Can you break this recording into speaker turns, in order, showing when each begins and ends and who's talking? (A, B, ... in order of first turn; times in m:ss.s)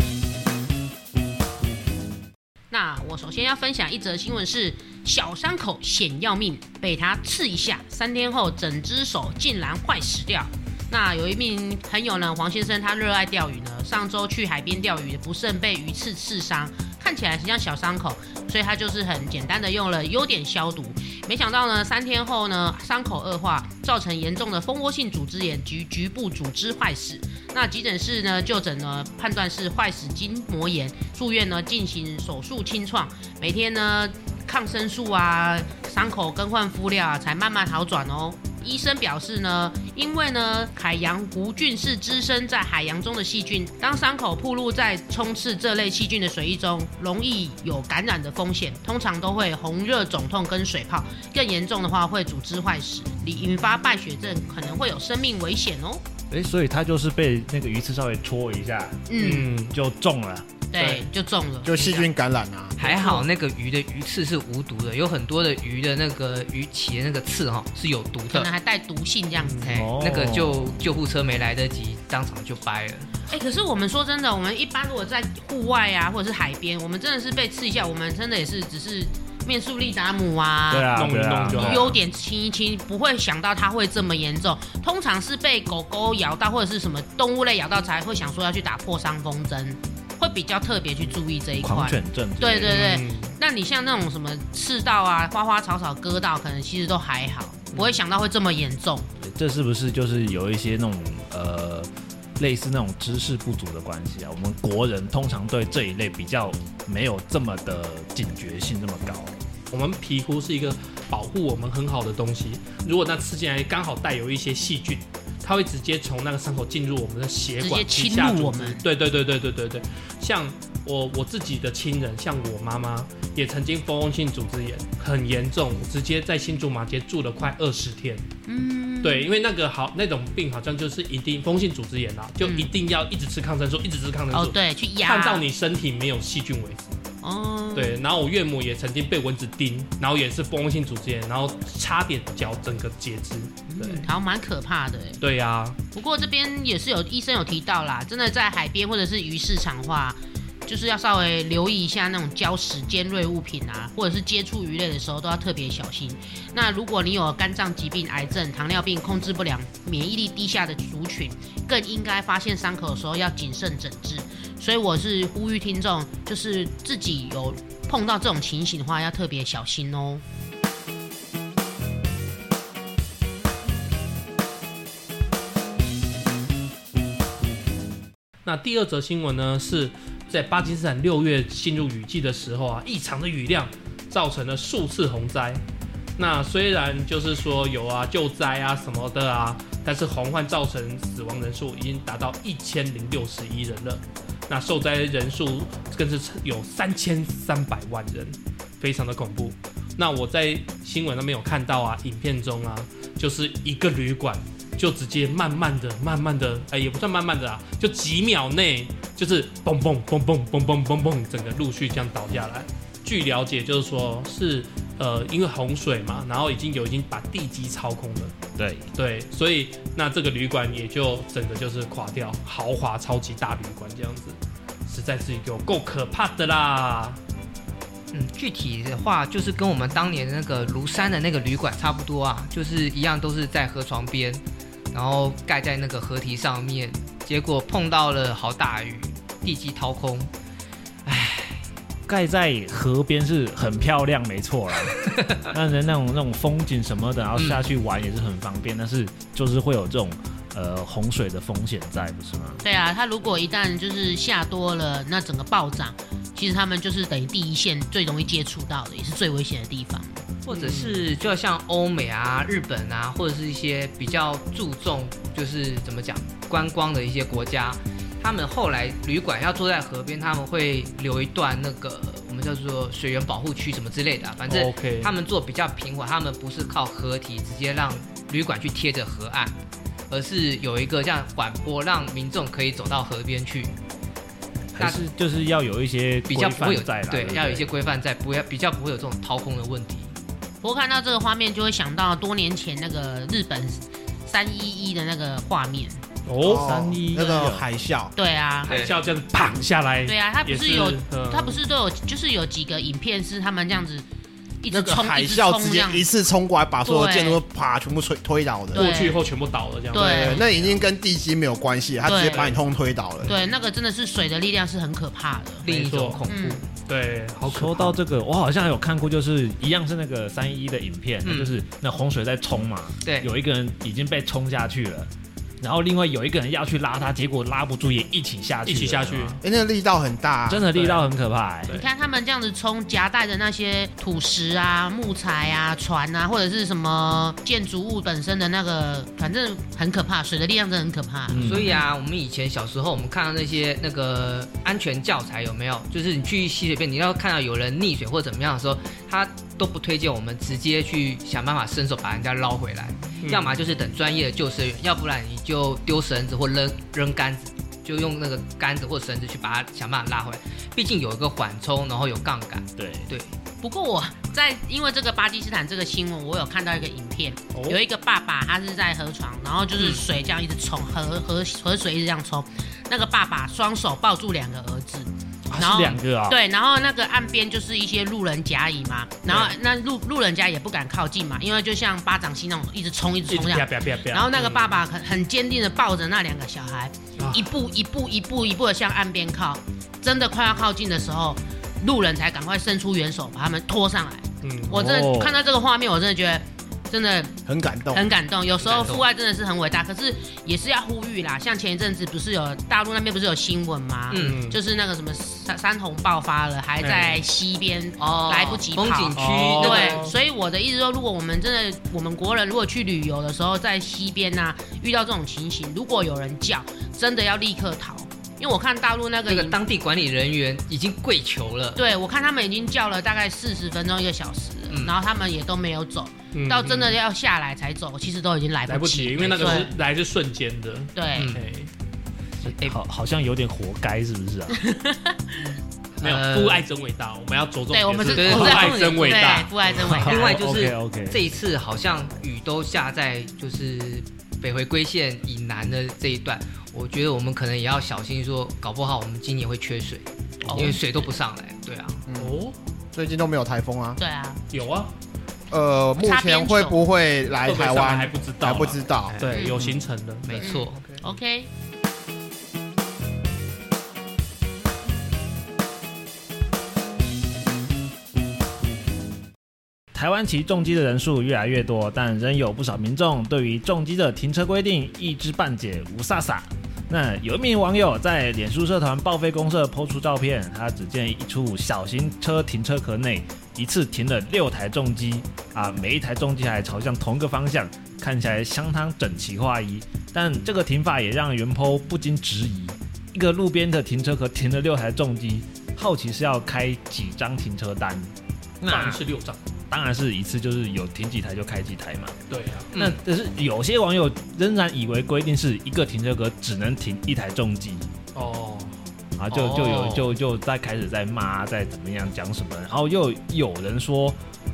0:02.7-0:56.0 A
0:56.3-0:59.1 B
0:59.1-0:59.5 A
0:59.2-0:59.7 C
0:59.7-1:00.5 B
1:00.7-1:02.1 A
1:00.8-1:01.1 C
1:01.6-1:02.8 D
1:02.8-1:08.5 E
1:02.8-1:03.3 A
1:08.3-1:09.8 A
1:09.5-1:09.8 C
1:09.6-1:13.1 E
1:09.7-1:10.8 B
1:13.3-1:20.9 A
1:20.7-1:22.0 B
1:20.9-1:22.0 C
1:21.5-1:39.1 A
1:31.6-1:32.8 B
1:32.7-1:33.3 C
1:39.2-1:49.4 B
1:49.7-2:08.3 C
1:57.6-1:58.8 A
2:08.5-2:09.3 A
2:09.0-2:16.9 C
2:12.4-2:12.7 A
2:14.3-2:15.5 A
2:17.2-2:18.0 A
2:17.8-2:24.1 C
2:23.7-2:25.2 A
2:25.2-2:25.8 C
2:25.9-2:50.2 A
2:58.4-3:05.6 C
3:06.2-3:38.3 C
3:38.6-3:38.9 B
3:39.0-3:47.2 C
3:48.1-4:00.3 E
4:01.1-4:01.6 E
4:02.1-4:12.6 B
4:05.0-4:05.5 E
4:07.4-4:07.7 E
4:12.6-4:20.2 A
4:20.4-4:39.6 E
4:20.5-4:21.1 C
4:34.5-4:35.1 C
4:40.1-4:43.7 E
4:44.7-4:47.7 B
4:46.3-4:50.1 E
4:50.6-4:56.0 A
4:56.3-4:56.7 C
4:56.4-4:58.1 D
4:56.5-4:57.7 B
4:58.2-4:58.7 A
4:58.7-4:59.0 E
4:58.7-5:01.6 C
5:00.1-5:04.0 A
5:04.6-5:06.1 A
5:04.7-5:09.0 D
5:06.8-5:07.4 A
5:08.7-5:10.8 C
5:08.7-5:09.2 A
5:09.9-5:10.4 A
5:09.9-5:13.3 D
5:12.0-5:12.5 A
5:12.2-5:12.6 C
5:13.2-5:15.7 A
5:15.6-5:16.6 E
5:15.7-5:16.2 C
5:16.3-5:16.6 A
5:16.8-5:18.0 C
5:17.5-5:25.1 B
5:21.2-5:21.6 E
5:23.0-5:23.3 E
5:25.6-5:29.4 B
5:28.7-5:29.4 C
5:29.4-5:30.6 D
5:30.5-5:31.8 B
5:30.7-5:31.1 C
5:31.7-5:41.8 A
5:41.3-5:41.8 B
5:41.4-6:03.4 E
5:53.2-5:53.6 C
6:02.8-6:03.1 B
6:03.6-6:37.4 A
6:07.5-6:07.8 C
6:09.8-6:10.0 E
6:15.5-6:16.4 B
6:19.3-6:19.6 C
6:23.3-6:24.8 C
6:27.2-6:27.5 C
6:34.4-6:34.7 C
6:34.7-6:35.4 B
6:37.5-6:38.1 D
6:37.9-6:59.6 A
6:38.6-6:39.0 E
6:44.1-6:44.5 E
6:44.2-6:44.6 C
6:46.8-6:47.2 C
6:48.0-6:50.1 E
6:49.1-6:50.1 C
6:59.3-7:01.8 E
7:01.8-7:09.7 A
7:04.7-7:05.0 E
7:06.3-7:07.0 C
7:08.7-7:11.7 C
7:09.2-7:09.7 E
7:11.0-7:11.4 A
7:11.2-7:11.5 E
7:12.4-7:14.6 B
7:12.4-7:12.8 E
7:14.5-7:15.5 A
7:16.0-7:16.6 E
7:16.0-7:19.8 C
7:17.7-7:20.4 A
7:18.1-7:19.4 E
7:19.9-7:21.2 B
7:20.0-7:32.1 E
7:32.1-7:32.4 D
7:32.2-7:32.6 C
7:32.9-7:34.0 D
7:34.0-7:34.4 A
7:34.5-7:34.9 C
7:35.5-7:39.7 D
7:36.0-7:36.8 A
7:37.4-7:40.6 C
7:39.1-7:39.5 E
7:39.3-7:39.6 A
7:40.2-7:41.0 E
7:40.4-7:41.5 A
7:49.9-8:19.0 B
8:18.7-8:19.4 C
8:19.7-8:22.2 B
8:22.3-8:22.7 C
8:22.7-8:23.0 E
8:22.8-8:27.9 B
8:28.2-8:28.8 C
8:29.2-8:34.2 B
8:29.3-8:30.1 E